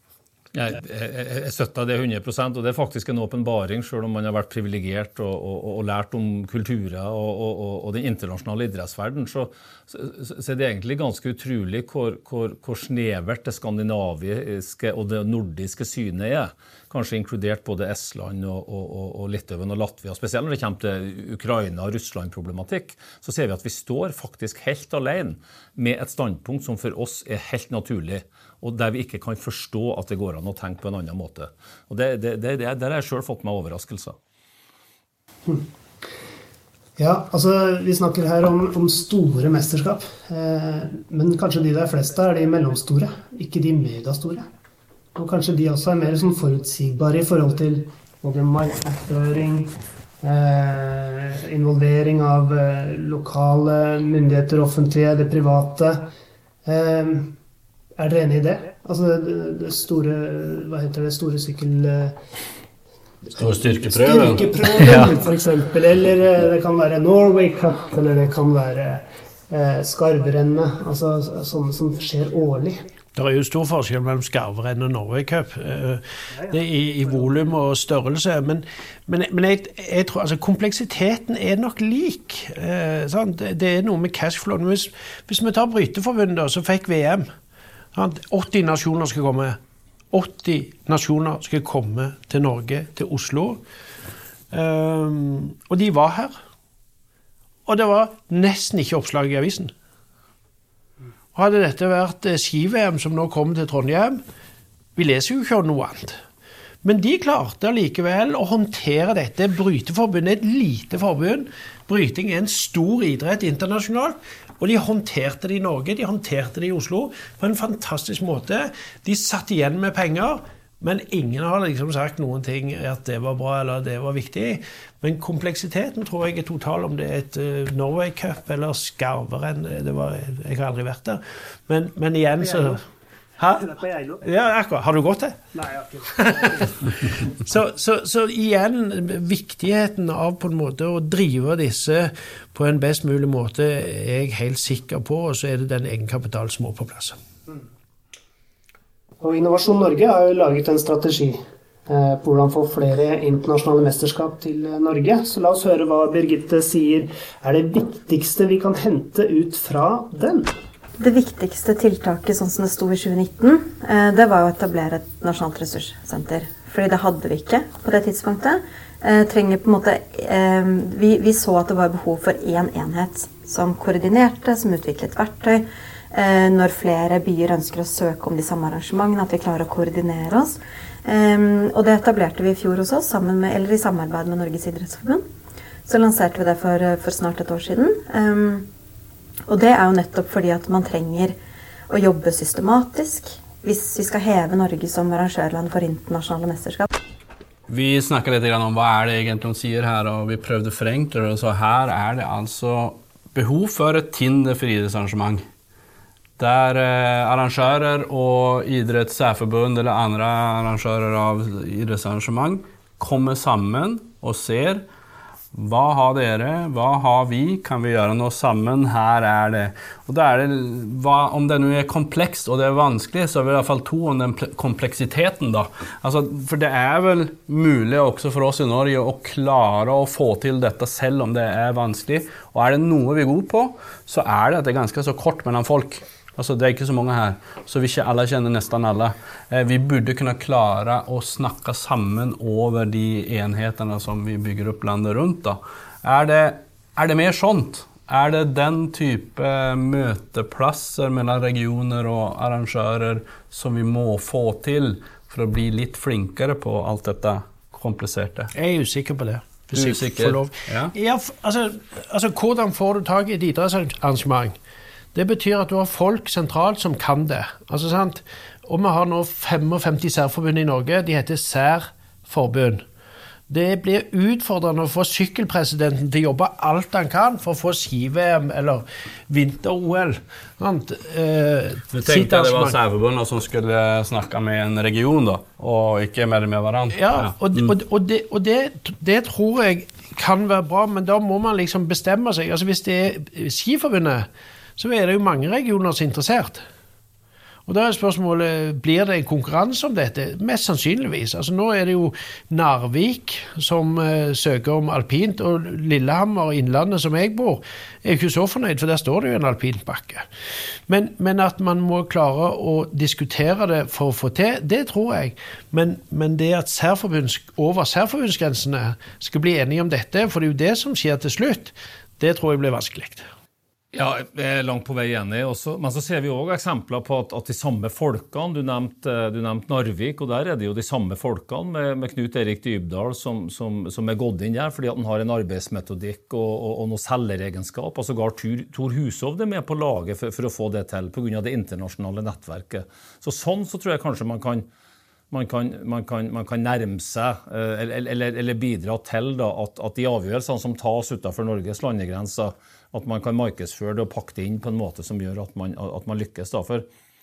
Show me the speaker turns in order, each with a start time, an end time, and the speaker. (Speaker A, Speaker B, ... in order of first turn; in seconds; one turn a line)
Speaker A: 0.5-34.2
Speaker B: 37.0-44.5
Speaker B: 45.1-49.7
Speaker B: 50.2-56.1
Speaker B: 56.6-57.3
Speaker B: 58.0-62.2
Speaker C: 63.4-65.2
Speaker B: 63.4-72.9
Speaker D: 73.2-87.3
Speaker D: 87.9-89.6
Speaker D: 90.1-93.6
Speaker D: 94.5-96.4
Speaker D: 97.7-99.7
Speaker D: 101.3-104.2
Speaker D: 105.0-106.2
Speaker D: 106.8-132.8
Speaker D: 133.4-135.4
Speaker B: 133.6-134.2
Speaker B: 135.6-136.8
Speaker D: 136.2-147.2
Speaker B: 149.2-160.5
Speaker E: 161.0-185.2
Speaker E: 185.8-188.7
Speaker E: 189.5-191.4
Speaker E: 191.9-196.9
Speaker C: 197.7-205.4
Speaker C: 206.4-214.8
Speaker C: 215.5-258.5
Speaker D: 258.5-264.6
Speaker C: 259.8-260.9
Speaker D: 265.1-272.8
Speaker D: 273.5-282.8
Speaker C: 282.0-287.7
Speaker D: 286.9-296.6
Speaker D: 297.7-310.2
Speaker D: 310.9-323.3
Speaker A: 323.9-344.7
Speaker A: 345.3-356.9